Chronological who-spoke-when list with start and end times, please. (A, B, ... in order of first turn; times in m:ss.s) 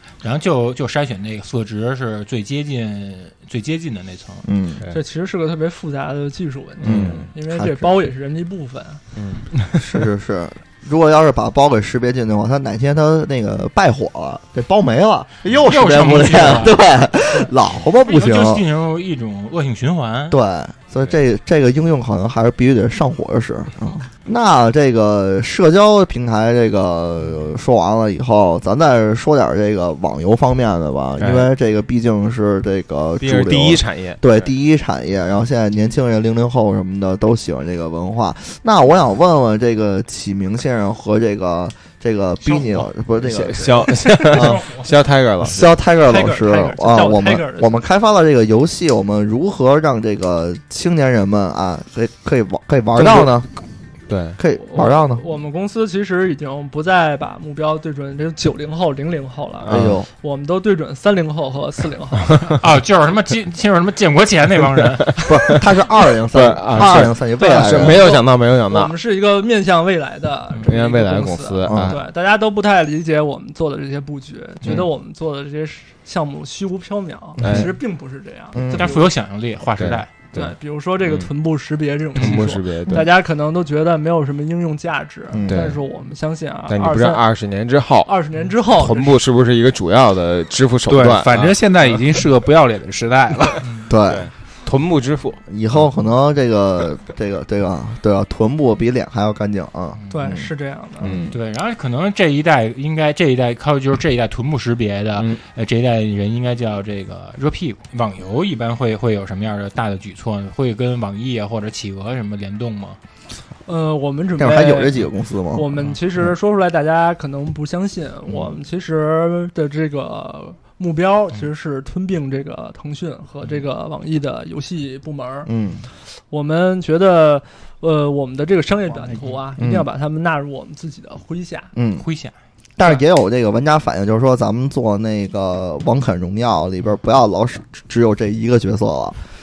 0:00.2-0:04.4 A
0:04.4-0:04.8 B
0:04.9-0:09.0 C
0:06.8-0:07.3 D
0:06.8-0:07.9 B
0:09.2-0:09.7 D
0:09.8-0:18.6 B
0:15.6-0:16.8 A
0:18.0-0:20.4 A
0:20.3-0:44.7 B
0:31.2-0:31.5 D
0:33.2-0:34.4 D
0:43.2-0:45.7 D
0:44.3-0:44.8 A
0:45.4-0:53.5 B
0:46.1-0:47.7 C
0:52.9-0:53.3 D
0:54.1-0:54.4 D
0:54.4-0:55.2 B
0:54.6-1:02.5 C
0:59.6-1:00.0 D
0:59.7-1:00.1 B
1:02.6-1:05.2 A
1:05.1-1:05.6 D
1:05.2-1:08.1 B
1:06.3-1:08.9 D
1:07.4-1:19.1 C
1:10.6-1:12.0 D
1:11.6-1:12.0 B
1:17.4-1:17.7 B
1:17.4-1:17.7 D
1:18.5-1:18.9 B
1:18.7-1:20.1 A
1:19.8-1:21.3 D
1:20.3-1:27.2 C
1:22.2-1:23.1 D
1:25.3-1:25.6 B
1:25.4-1:25.8 D
1:26.7-1:28.1 D
1:28.0-1:29.1 C
1:28.7-1:32.2 D
1:30.9-1:33.6 E
1:33.6-1:33.9 A
1:33.9-1:34.3 B
1:34.0-1:35.4 D
1:35.5-1:40.5 B
1:40.1-1:41.1 C
1:41.0-1:41.3 D
1:41.0-1:41.3 B
1:41.3-1:53.0 A
1:53.6-1:55.0 C
1:54.4-1:55.6 B
1:55.5-2:05.5 C
2:05.4-2:05.8 B
2:06.3-2:11.7 C
2:09.6-2:09.9 B
2:11.7-2:12.0 B
2:12.0-2:12.3 A
2:12.8-2:19.2 B